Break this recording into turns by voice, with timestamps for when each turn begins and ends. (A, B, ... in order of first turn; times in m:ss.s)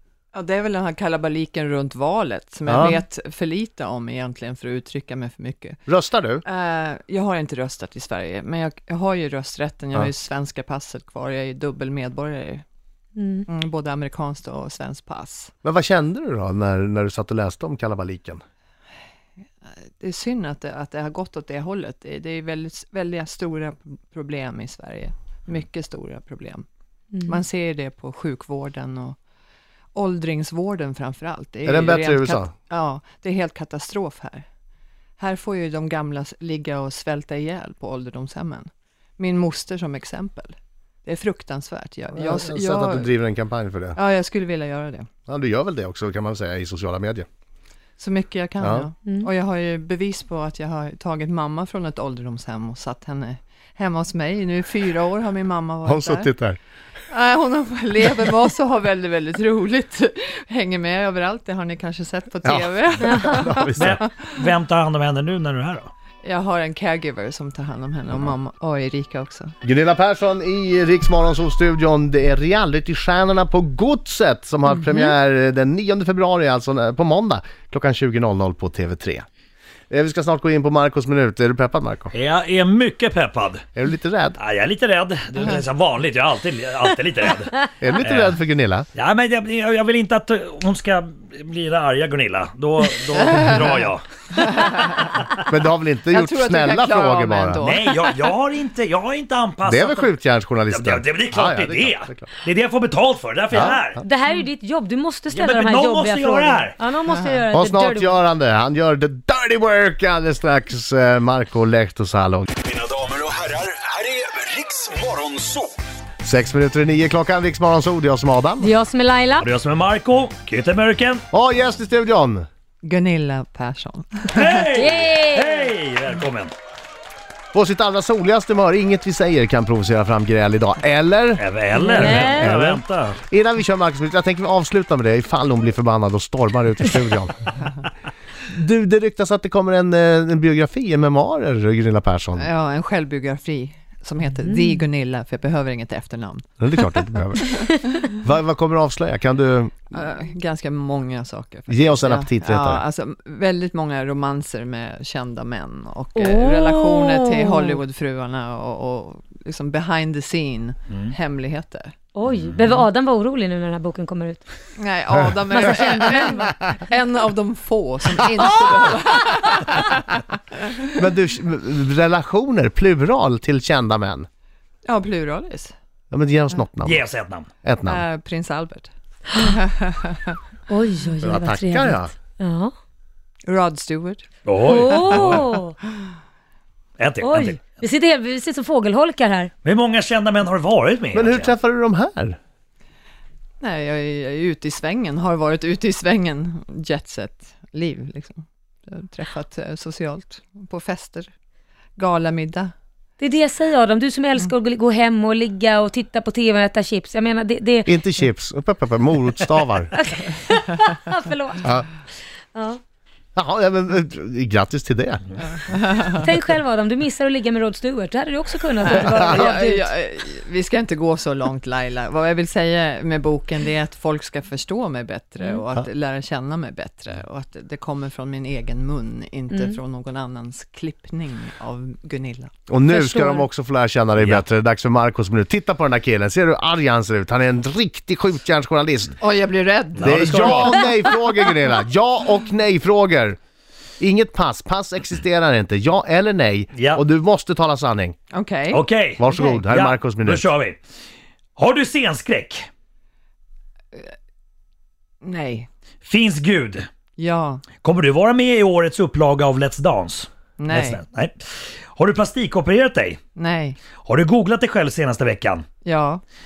0:00.3-0:05.8 A
0:02.7-0:03.0 B
0:05.9-0:06.4 B
0:06.4-0:12.6 A
0:13.2-0:13.5 C
0:13.5-0:15.5 A
0:15.6-0:18.4 B
0:20.0-0:26.6 A
0:27.1-0:27.4 C
0:27.3-0:29.2 A
0:30.0-0:34.4 A
0:31.7-0:32.5 B
0:35.2-0:43.1 A
0:42.2-0:44.0 B
0:44.0-0:45.1 A
0:45.3-0:47.3 B
0:48.0-0:56.3 A
0:48.6-0:48.9 B
0:55.8-0:56.6 B
0:57.1-1:04.4 A
1:02.4-1:04.0 B
1:03.1-1:03.4 C
1:03.8-1:05.9 D
1:06.2-1:09.6 A
1:09.6-1:19.2 B
1:19.9-1:22.1 B
1:22.1-1:23.6 D
1:23.8-1:24.4 B
1:24.4-1:28.4 D
1:27.8-1:28.9 B
1:29.0-1:35.0 D
1:34.4-1:35.0 A
1:35.5-1:37.7 B
1:36.1-1:38.1 A
1:37.6-1:40.2 D
1:39.6-1:42.3 B
1:40.7-1:44.0 D
1:43.5-1:43.8 B
1:44.0-1:48.2 C
1:45.3-1:46.8 D
1:47.1-1:47.4 A
1:47.5-1:52.5 B
1:52.8-1:55.0 E
1:56.2-1:58.7 B
1:58.6-1:59.5 C
1:59.4-2:01.2 D
2:01.3-2:02.5 B
2:02.8-2:04.6 A
2:04.3-2:06.5 D
2:04.7-2:05.7 C
2:07.5-2:11.4 B
2:11.4-2:13.2 D
2:11.8-2:12.5 C
2:12.0-2:17.5 B
2:18.5-2:22.5 B
2:22.4-2:27.0 A
2:26.6-2:29.8 B
2:27.5-2:27.9 A
2:29.9-2:42.0 A
2:31.7-2:32.8 B
2:36.2-2:37.8 C
2:42.2-2:44.4 C
2:42.3-2:42.6 D
2:44.8-2:50.1 A
2:45.5-2:46.5 C
2:51.0-2:54.3 B
2:54.8-2:55.7 A
2:56.1-2:57.0 B
2:56.8-2:57.5 D
2:57.6-2:58.0 B
2:57.9-3:00.4 A
2:59.3-2:59.6 C
3:00.7-3:02.7 C
3:01.2-3:02.1 B
3:03.5-3:04.3 A
3:04.4-3:05.5 D
3:04.6-3:05.8 C
3:07.0-3:07.7 D
3:07.2-3:09.5 C
3:09.6-3:11.5 D
3:11.1-3:12.4 B
3:13.6-3:21.3 A
3:22.0-3:22.7 A
3:23.2-3:28.0 C
3:27.9-3:29.9 B
3:30.0-3:31.7 C
3:32.5-3:32.8 C
3:33.4-3:35.2 B
3:35.5-3:36.2 A
3:36.1-3:39.9 C
3:38.8-3:52.5 A
3:39.0-3:39.4 B
3:49.5-3:49.8 C
3:52.7-3:59.2 B
3:52.9-3:53.5 C
3:59.2-4:00.8 A
4:00.0-4:00.8 D
4:00.0-4:03.4 B
4:04.0-4:08.2 B
4:06.8-4:07.0 D
4:08.3-4:09.6 A
4:08.7-4:10.8 D
4:09.2-4:10.4 B
4:11.6-4:12.7 D
4:15.2-4:15.7 A
4:16.0-4:16.9 D
4:17.2-4:17.6 A
4:17.8-4:21.4 D
4:20.6-4:21.0 A
4:21.9-4:23.2 D
4:23.4-4:23.8 A
4:24.0-4:25.6 D
4:25.8-4:26.2 A